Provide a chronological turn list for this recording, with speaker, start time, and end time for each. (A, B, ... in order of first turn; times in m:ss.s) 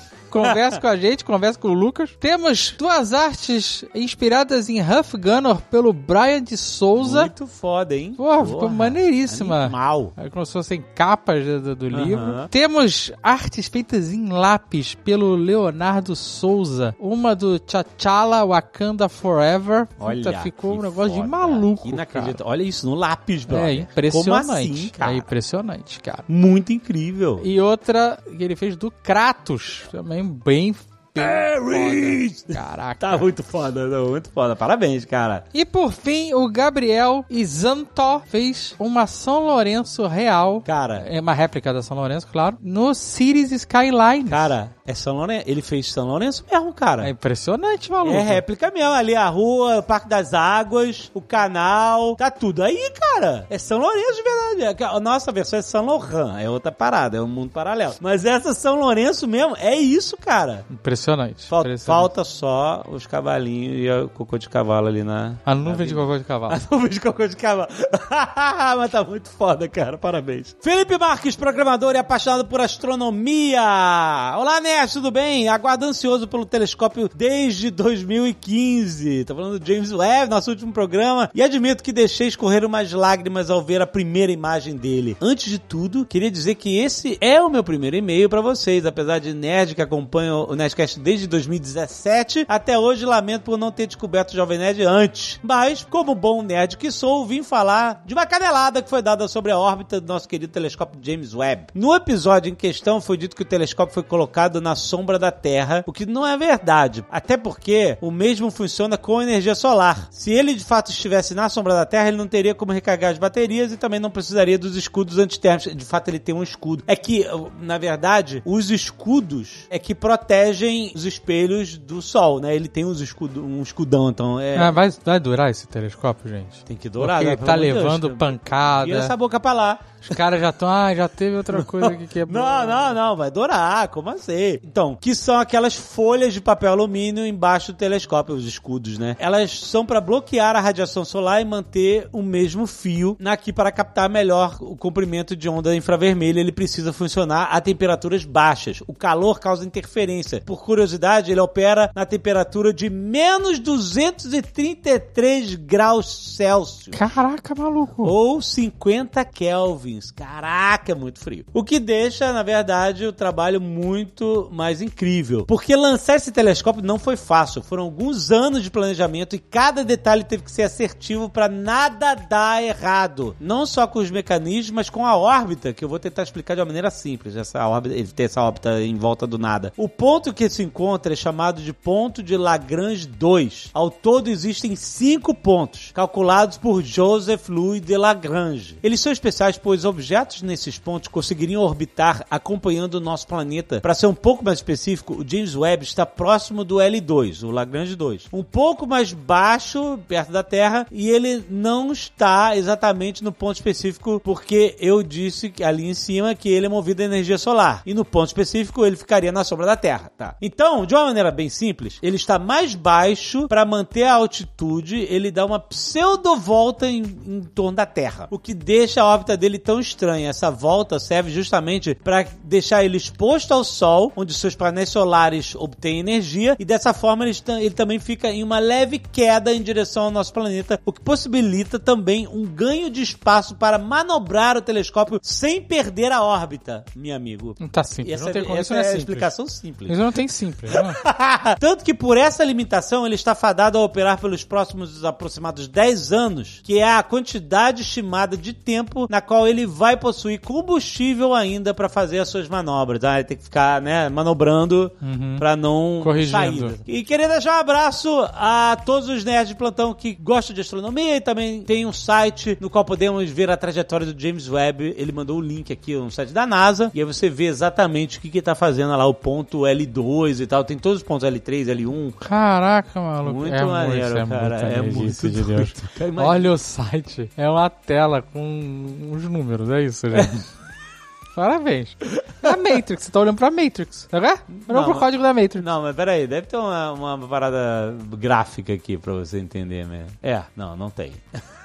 0:00.3-0:07.3 A
0:07.0-0:10.1 B
0:08.2-0:22.4 A
0:11.9-0:12.5 B
0:20.0-0:25.2 B
0:23.5-0:26.3 A
0:26.3-0:27.4 B
0:27.4-0:33.2 A
0:31.2-0:35.4 B
0:35.5-0:44.5 A
0:40.6-0:41.0 B
0:44.3-0:47.1 B
0:47.0-0:48.4 A
0:48.0-1:00.7 B
1:00.7-1:02.1 A
1:01.5-2:04.8 B
1:05.4-1:06.6 A
2:04.6-2:09.1 A
2:06.7-2:10.2 B
2:10.0-2:13.0 A
2:11.5-2:37.0 B
2:36.9-2:38.1 A
2:38.0-4:00.0 B
3:57.6-3:59.3 A
3:59.8-4:01.0 A
4:00.9-4:32.2 B
4:15.0-4:15.4 A
4:16.0-4:16.8 A
4:32.2-4:40.4 A
4:33.2-4:36.5 B
4:41.3-4:45.6 A
4:44.5-4:45.1 B
4:45.6-4:51.3 B